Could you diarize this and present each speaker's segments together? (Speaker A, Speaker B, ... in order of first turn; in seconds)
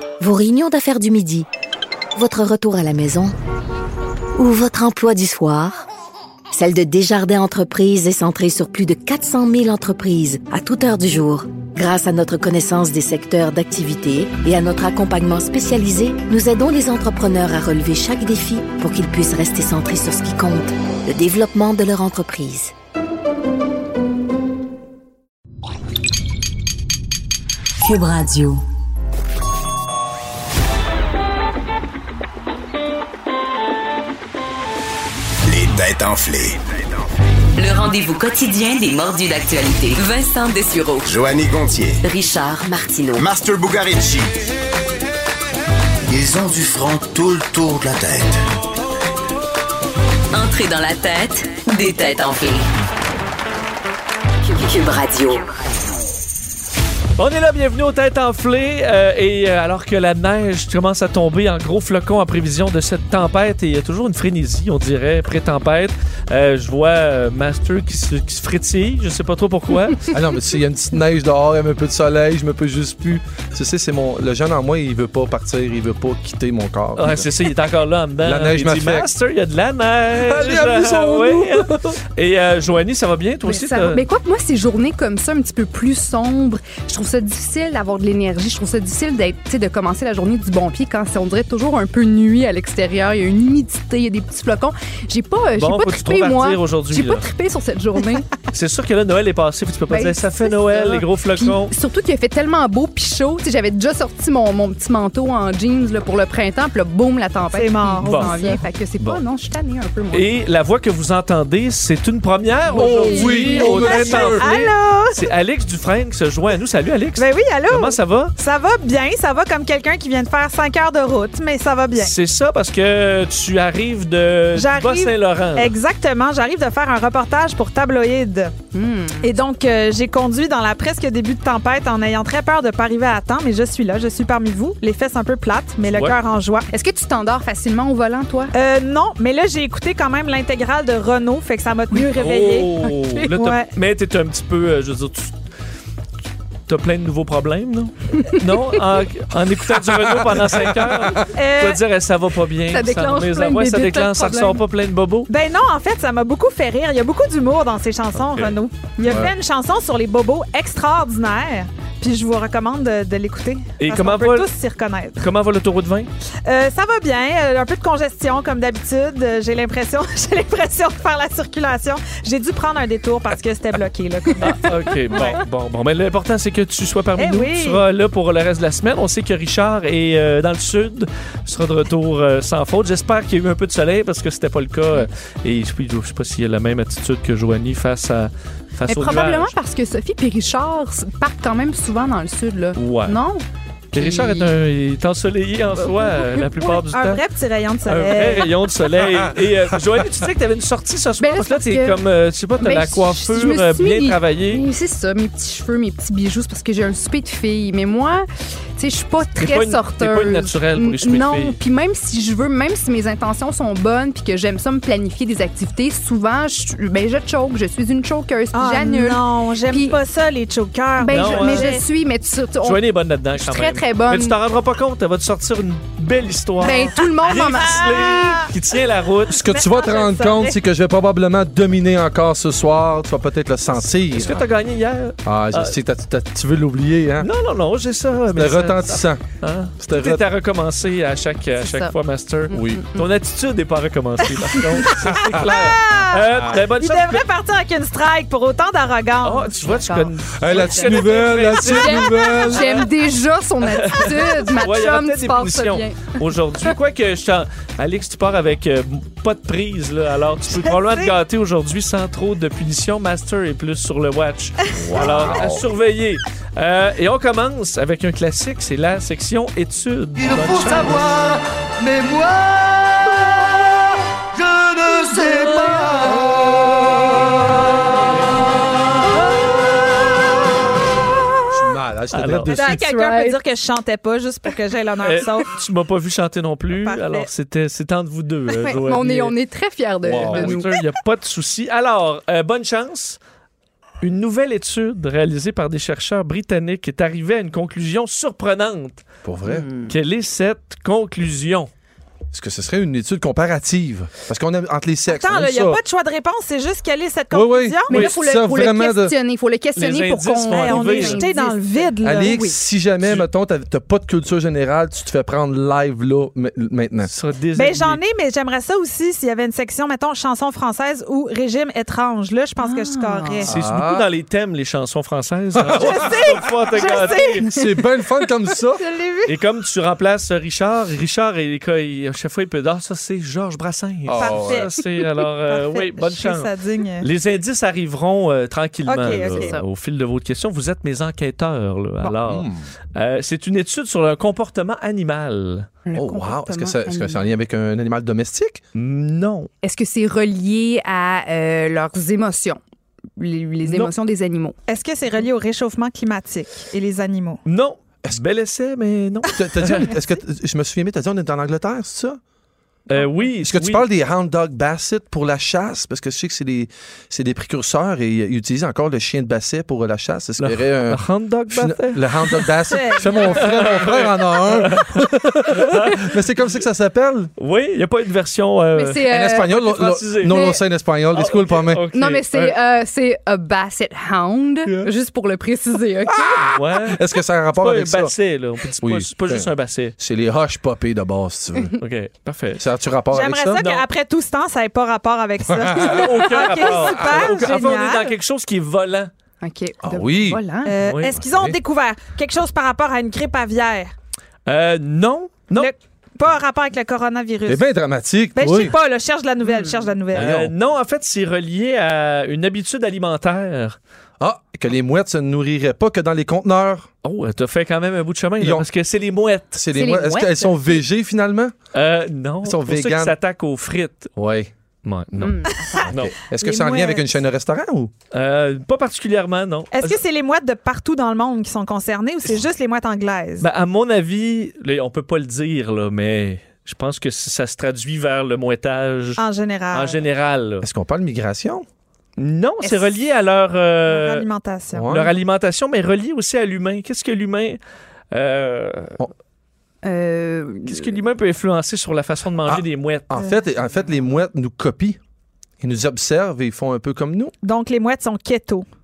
Speaker A: 0.2-1.5, 2.1-3.3, 4.3-5.7, 6.5-22.7
Speaker B: 27.8-28.6, 37.6-41.1, 42.0-43.2, 50.3-52.7, 54.4-55.5
Speaker C: 35.5-36.6, 41.0-42.0, 43.1-44.3, 46.1-48.4
Speaker D: 57.2-70.1, 77.0-84.0, 95.5-97.3, 98.5-101.7, 108.0-108.3, 110.1-118.3, 121.9-125.7, 135.8-136.2, 141.9-145.3, 146.7-155.3, 158.1-158.5, 163.8-164.5, 165.2-166.1, 174.4-189.5, 192.8-193.2, 193.9-197.2, 197.8-204.6, 209.4-211.6, 221.1-221.8, 222.6-229.5, 234.0-235.8, 237.2-247.2, 249.2-252.8, 253.8-271.3, 275.1-275.9, 282.1-282.5, 285.0-289.3, 290.2-293.2, 294.0-299.0, 299.9-301.7, 309.7-311.3, 317.1-318.0, 323.5-327.4, 329.2-336.5, 337.0-345.7, 348.7-349.5, 353.6-353.9, 357.4-359.9, 362.9-363.8, 370.4-372.5, 373.3-376.2, 377.4-380.4, 381.1-382.6, 386.4-387.0, 387.5-389.9, 391.8-392.6, 393.6-393.9, 395.8-399.1, 400.8-401.4, 404.5-405.7, 410.1-413.8, 417.0-419.6, 421.7-424.1, 424.8-426.2, 428.1-430.0, 433.4-440.6, 442.2-444.2, 444.9-447.6, 448.1-449.0, 450.7-453.1
Speaker E: 70.1-77.3, 78.2-79.1, 80.1-82.0, 112.7-114.5, 149.9-151.2, 159.0-159.3, 229.3-234.4, 235.2-237.3, 238.3-239.2, 239.8-240.2, 242.5-242.8, 250.4-252.8, 264.8-265.7, 281.5-282.5, 290.0-290.7, 299.2-299.7, 302.3-305.8, 307.3-309.1, 312.0-317.1, 323.4-324.1, 325.5-326.3, 327.4-328.8, 334.0-334.7, 342.2-342.6, 345.9-348.6, 359.4-362.2, 363.4-377.3, 379.1-381.8, 384.6-384.9, 386.0-388.1, 388.8-391.8, 392.6-393.6, 395.4-397.3, 399.8-400.4, 401.1-401.6, 407.4-408.8, 410.1-410.5, 414.2-416.9, 418.4-418.7, 419.5-421.5, 422.4-423.1, 424.2-424.5, 425.9-427.9, 440.6-441.6, 444.7-445.1, 452.4-455.0, 455.6-457.3
Speaker F: 83.4-98.3, 99.9-110.3, 112.7-113.9, 128.7-129.3, 136.7-138.5, 142.9-143.3, 148.2-148.7, 152.7-154.6, 188.9-194.5, 201.2-202.0, 202.6-208.2, 208.8-220.0, 221.0-222.8, 223.3-224.3, 226.6-227.9, 241.6-241.9, 242.5-243.1, 249.7-250.7, 251.6-256.1, 275.2-275.9, 282.5-283.4, 288.6-290.7, 299.4-299.9, 307.9-312.6, 322.6-323.4, 339.3-339.6, 345.9-347.3, 349.6-352.6, 353.2-354.6, 378.7-379.5, 380.2-380.6, 381.9-386.4, 399.4-400.7, 409.4-409.9, 419.7-420.8, 425.2-425.9, 449.8-450.9
Speaker G: 107.5-108.6, 113.5-115.2, 117.2-122.1, 124.5-128.5, 129.2-136.7, 138.5-143.7, 151.3-151.8, 155.3-165.2, 166.4-175.4, 177.2-177.8, 196.1-198.5, 218.5-221.8, 226.6-228.5, 229.3-230.6, 244.8-249.5, 260.5-261.1, 282.5-285.5, 286.7-287.3, 305.1-308.0, 310.5-312.4, 317.5-323.5, 325.7-327.6, 328.8-329.3, 334.1-334.8, 335.4-337.1, 338.9-339.5, 354.7-357.4, 372.7-373.8, 393.1-398.1, 400.6-403.9, 405.5-407.6, 408.3-410.3, 426.4-427.1, 429.7-433.5, 439.2-440.0, 443.9-444.9, 457.4-458.6